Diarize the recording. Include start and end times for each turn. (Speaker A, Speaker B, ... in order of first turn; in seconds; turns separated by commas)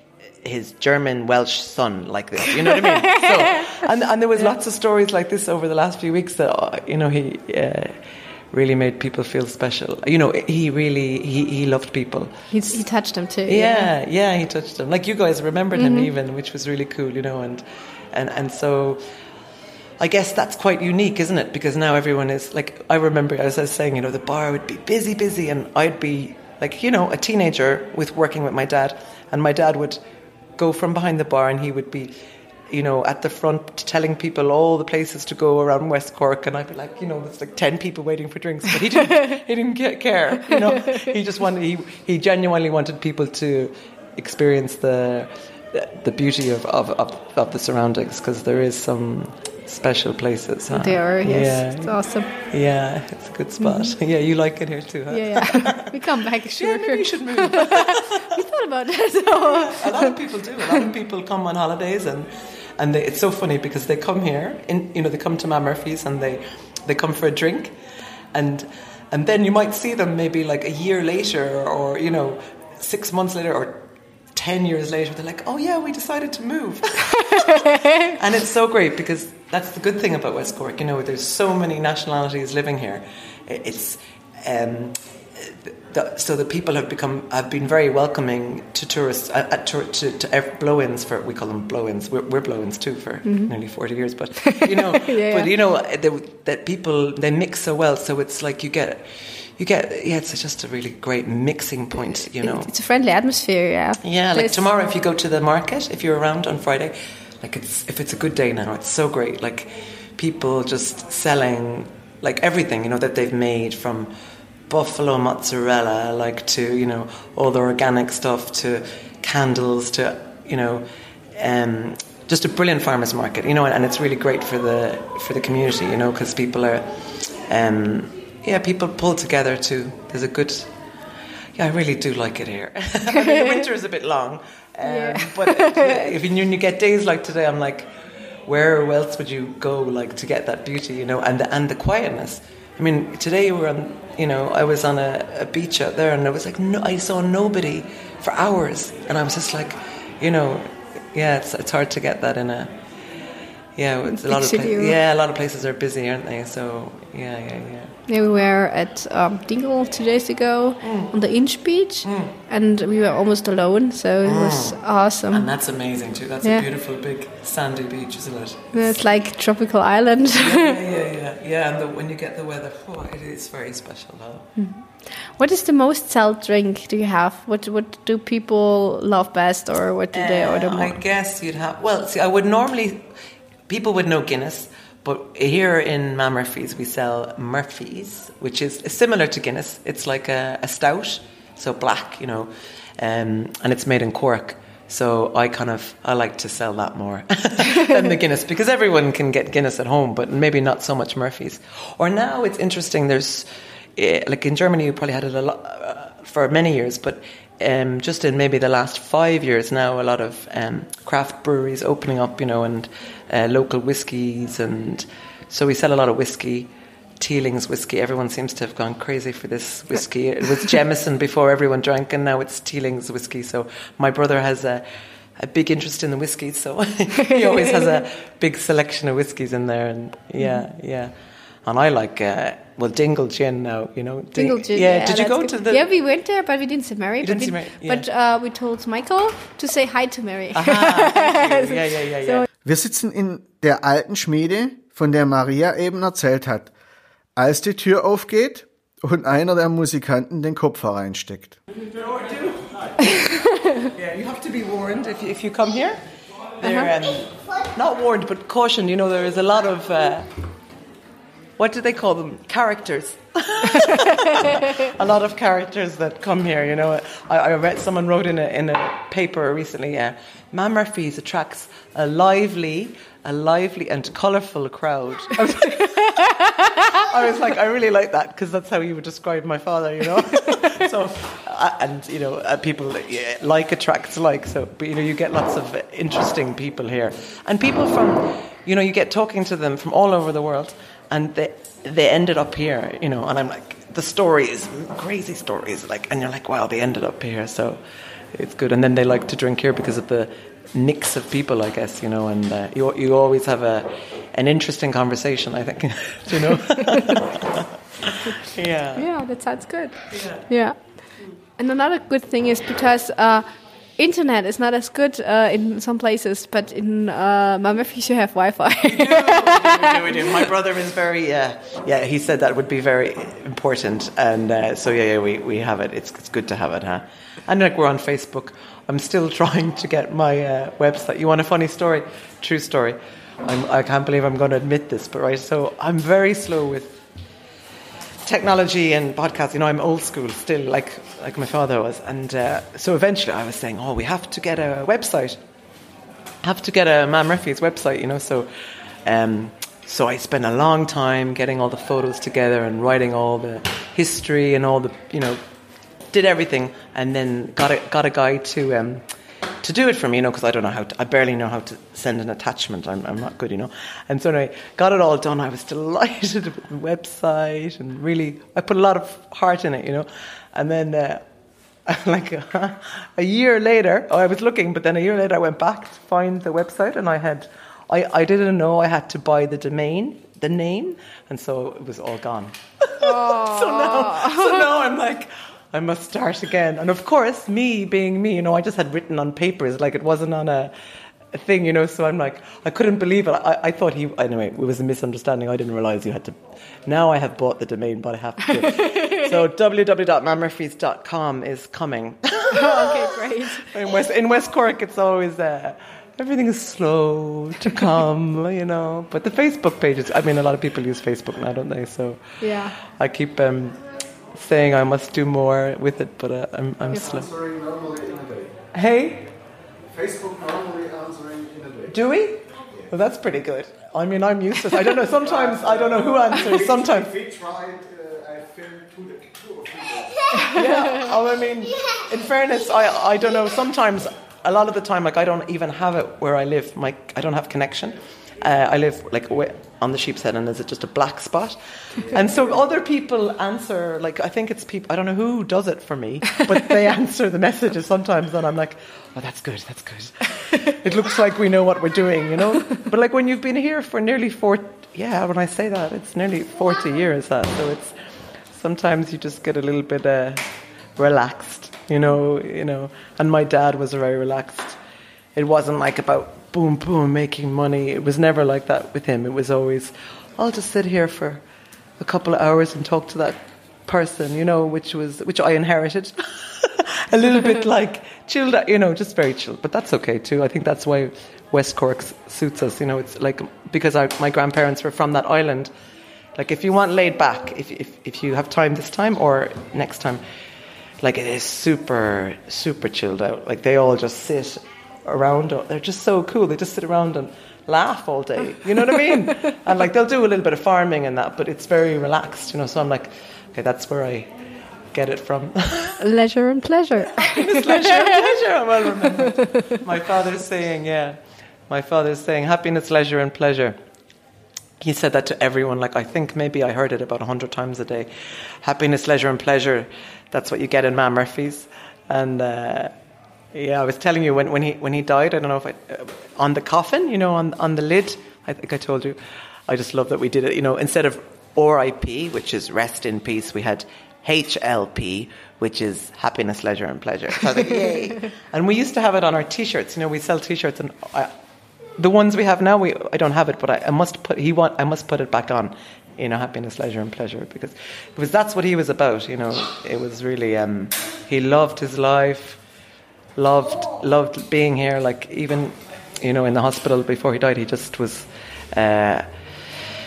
Speaker A: 0.4-8.0, Speaker A: 8.5-12.8, Speaker B: 12.5-13.9, Speaker A: 13.5-19.0, Speaker B: 15.7-16.1, Speaker A: 20.0-30.0, Speaker A: 30.6-32.1, Speaker A: 32.7-58.3, Speaker B: 50.7-52.3, Speaker B: 53.6-53.9, Speaker B: 55.1-60.2, Speaker A: 59.4-67.8, Speaker A: 68.3-102.7, Speaker B: 93.2-93.5, Speaker B: 94.5-95.5, Speaker B: 102.4-104.6, Speaker A: 104.0-114.1, Speaker A: 114.7-130.7, Speaker A: 131.6-137.9, Speaker B: 133.2-133.6, Speaker B: 134.8-136.1, Speaker A: 138.4-152.7, Speaker A: 153.8-157.9, Speaker B: 154.1-155.0, Speaker B: 158.1-165.5, Speaker A: 160.8-161.1, Speaker A: 162.0-162.3, Speaker A: 164.2-164.8, Speaker A: 165.3-168.9, Speaker B: 168.7-170.8, Speaker A: 170.3-174.5, Speaker B: 174.6-181.0, Speaker A: 180.1-183.1, Speaker A: 183.7-224.8, Speaker A: 225.4-231.1, Speaker A: 231.6-235.8, Speaker B: 234.3-242.4, Speaker A: 237.2-238.0, Speaker A: 240.5-242.4, Speaker C: 242.6-246.7, Speaker C: 247.3-251.6, Speaker A: 251.8-253.3, Speaker B: 253.3-253.8, Speaker A: 253.9-256.0, Speaker A: 256.6-260.3, Speaker B: 256.6-256.9, Speaker A: 261.6-276.3, Speaker A: 276.8-297.8, Speaker A: 298.3-309.1, Speaker B: 308.9-313.4, Speaker A: 310.1-310.5, Speaker B: 314.0-320.3, Speaker A: 318.8-337.0, Speaker A: 338.2-345.4, Speaker A: 346.4-348.5, Speaker A: 349.0-355.4, Speaker A: 356.1-359.0, Speaker A: 359.6-371.2, Speaker A: 371.9-390.7, Speaker B: 383.0-384.6, Speaker A: 391.3-413.8, Speaker B: 402.5-403.7, Speaker B: 412.4-412.7, Speaker A: 414.3-417.3, Speaker C: 416.9-418.5, Speaker A: 418.7-419.3, Speaker C: 419.9-421.9, Speaker A: 421.9-427.1, Speaker C: 425.2-430.5, Speaker A: 430.4-457.9, Speaker A: 458.5-460.4, Speaker A: 461.0-464.8, Speaker A: 465.4-471.4, Speaker A: 472.0-485.7, Speaker A: 486.4-490.2, Speaker A: 491.0-504.3, Speaker A: 504.9-506.0, Speaker B: 506.0-508.4, Speaker A: 507.1-511.2, Speaker A: 511.7-513.8, Speaker A: 514.8-522.9, Speaker A: 523.5-541.3, Speaker A: 542.0-552.6, Speaker A: 553.4-559.3